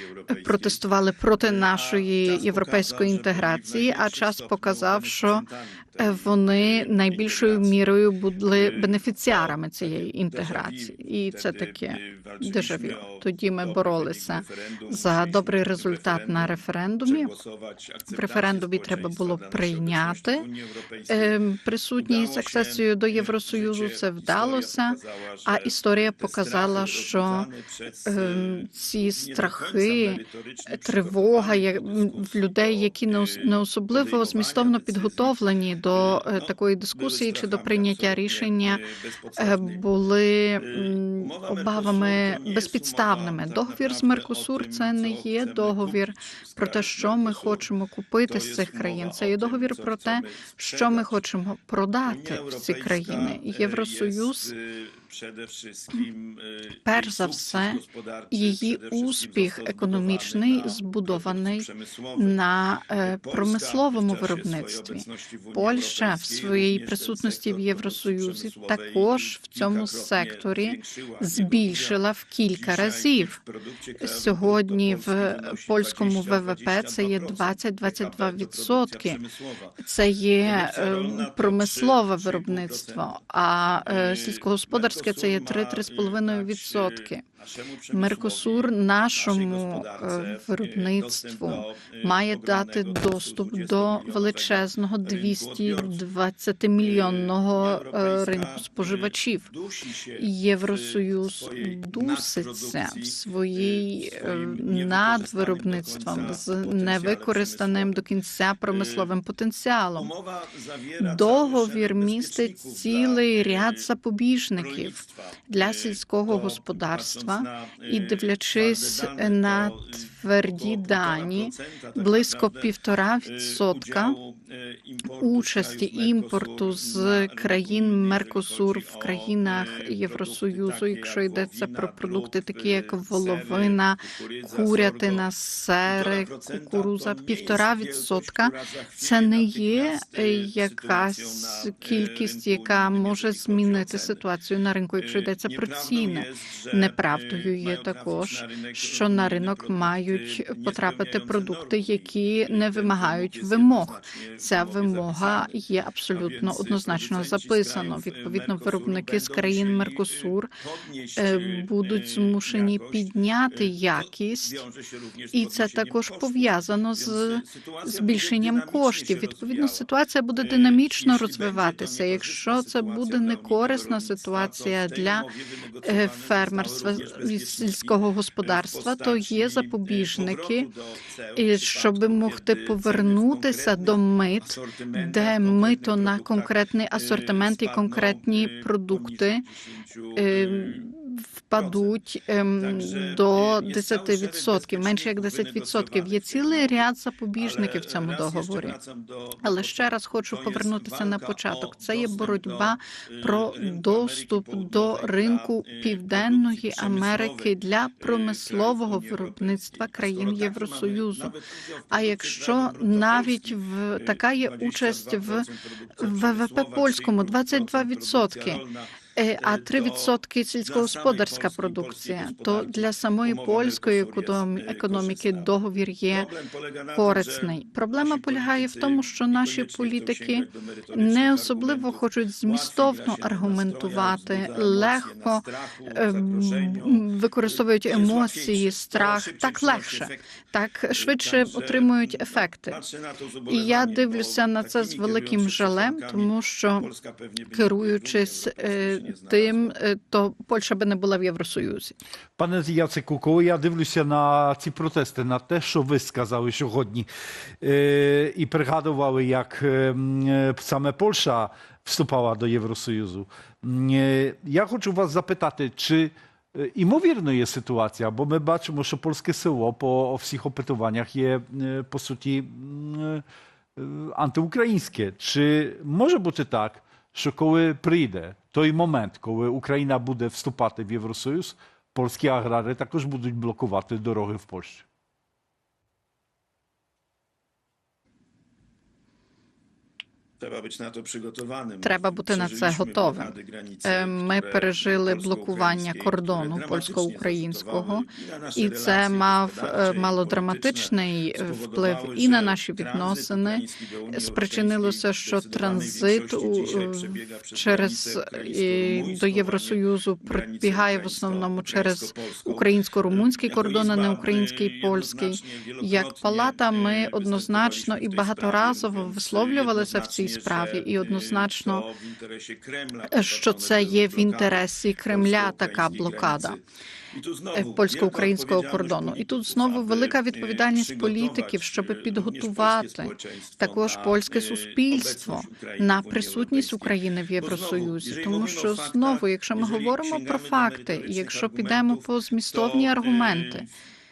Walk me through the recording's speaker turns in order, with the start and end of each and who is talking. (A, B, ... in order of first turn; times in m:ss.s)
0:00.3-0:05.4 A
0:00.3-0:00.7 B
0:01.4-0:06.1 B
0:06.0-0:17.4 A
0:06.6-0:07.7 B
0:08.7-0:10.9 B
0:11.4-0:16.4 B
0:17.1-0:21.3 B
0:18.1-0:20.5 A
0:21.1-0:27.5 A
0:22.1-0:25.6 B
0:26.2-0:27.9 B
0:28.0-0:38.8 A
0:29.2-0:35.3 B
0:36.0-0:38.5 B
0:39.2-0:39.8 B
0:39.4-0:54.5 A
0:40.7-0:45.9 B
0:46.6-0:47.6 B
0:48.3-0:51.1 B
0:52.2-1:01.7 B
0:56.8-1:13.4 A
1:03.3-1:11.9 B
1:12.6-1:19.8 B
1:14.0-1:19.2 A
1:19.8-1:27.2 A
1:20.5-1:23.0 B
1:23.9-1:26.9 B
1:27.9-1:28.6 B
1:27.9-1:39.5 A
1:29.3-1:30.1 B
1:30.7-1:35.9 B
1:37.0-1:39.0 B
1:39.8-1:40.2 B
1:40.2-1:50.1 A
1:41.5-1:48.0 B
1:50.1-1:53.2 B
1:51.0-2:04.2 A
1:54.6-1:55.1 B
1:56.3-1:58.0 B
1:58.6-2:00.0 B
2:00.6-2:02.6 B
2:03.3-2:13.7 B
2:05.0-2:40.5 A
2:14.2-2:15.2 B
2:15.9-2:24.2 B
2:25.0-2:31.7 B
2:32.5-2:35.5 B
2:36.2-2:40.3 B
2:40.9-2:43.0 B
2:41.2-2:44.6 A
2:45.2-2:49.8 B
2:45.3-2:55.3 A
2:50.5-3:04.0 B
2:55.8-3:00.7 A
3:01.4-3:09.4 A
3:04.5-3:06.4 B
3:07.0-3:09.2 B
3:09.9-3:10.7 B
3:10.2-3:18.8 A
3:12.6-3:16.6 B
3:17.4-3:19.4 B
3:19.4-3:31.3 A
3:20.3-3:22.6 B
3:23.2-3:27.5 B
3:28.1-3:33.5 B
3:31.9-3:35.5 A
3:34.1-3:38.8 B
3:36.0-3:38.6 A
3:39.1-3:46.3 A
3:40.7-3:45.4 B
3:46.2-3:47.5 B
3:46.9-4:02.8 A
3:48.0-3:50.3 B
3:50.9-3:57.0 B
3:57.9-4:00.2 B
4:01.2-4:01.9 B
4:02.8-4:06.2 B
4:03.5-4:06.9 A
4:06.9-4:09.7 B
4:07.5-4:12.0 A
4:12.4-4:17.1 C
4:17.6-4:33.2 C
4:33.8-4:44.8 C
4:50.9-4:51.8 B
4:51.8-5:21.9 A
4:52.5-4:54.2 B
4:54.8-4:57.8 B
4:58.5-5:00.9 B
5:01.4-5:09.7 B
5:10.3-5:12.6 B
5:13.1-5:24.4 B
5:23.1-5:26.6 A
5:25.1-5:26.3 B
5:27.2-5:36.9 B
5:27.5-5:43.7 A
5:37.5-5:42.0 B
5:42.5-5:43.6 B